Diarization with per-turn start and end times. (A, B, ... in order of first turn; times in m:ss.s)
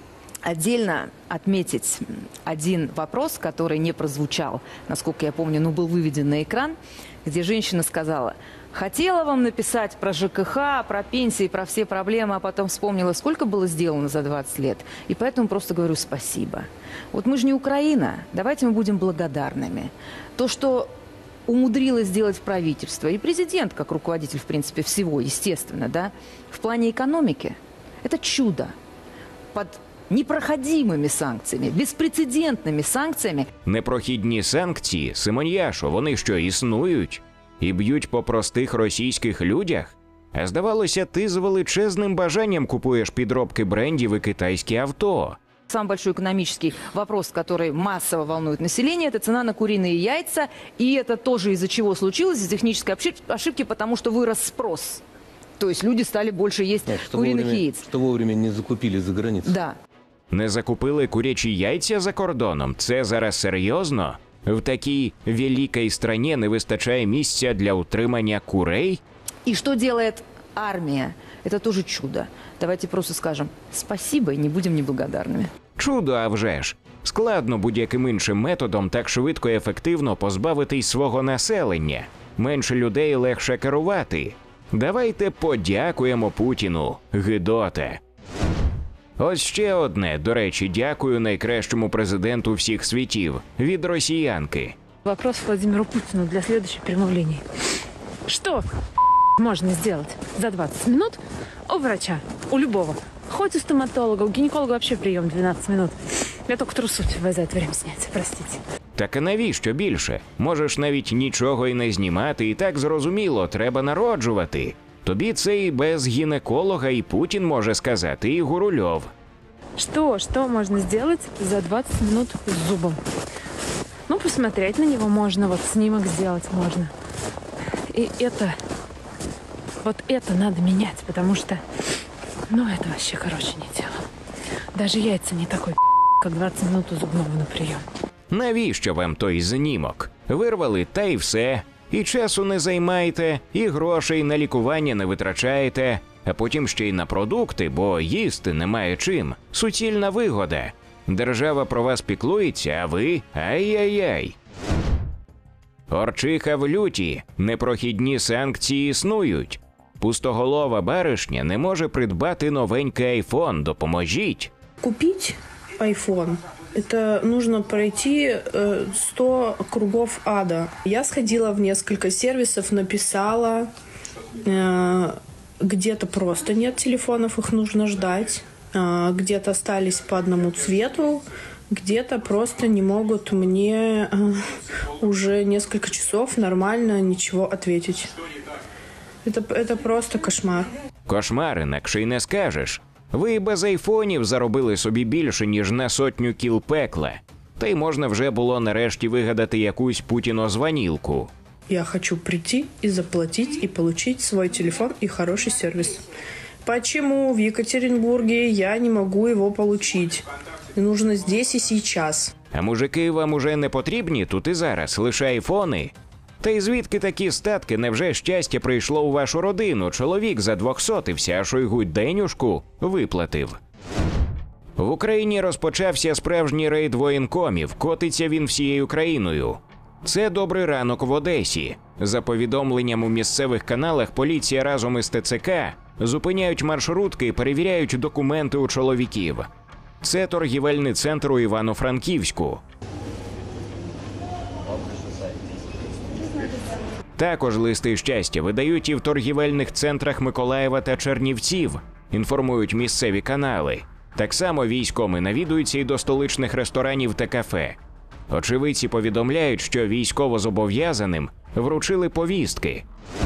0:00.4-0:20.9 A
0:21.5-0:28.7 A
0:29.5-0:33.5 A
0:33.6-0:45.4 B
0:45.7-0:55.0 A
0:55.6-0:57.9 A
0:56.8-0:59.5 C
0:59.4-0:59.7 A
1:00.3-1:09.0 B
1:09.4-1:15.5 A
1:15.8-1:28.0 B
1:29.2-1:34.8 B
1:35.0-1:37.4 D
1:38.3-1:38.7 D
1:39.4-1:48.6 D
1:49.0-1:59.1 B
1:59.8-2:03.0 D
2:04.1-2:06.9 D
2:07.9-2:08.6 D
2:09.8-2:11.6 D
2:12.5-2:14.0 D
2:14.7-2:17.8 D
2:18.3-2:34.4 B
2:35.9-2:44.5 B
2:44.8-2:53.7 E
2:54.4-3:04.4 E
3:05.0-3:08.1 E
3:09.2-3:10.7 E
3:11.1-3:21.3 B
3:21.7-3:26.0 E
3:26.6-3:32.3 E
3:32.5-3:43.6 B
3:44.8-3:59.5 B
4:00.0-4:02.6 B
4:07.2-4:17.8 B
4:18.3-4:22.8 B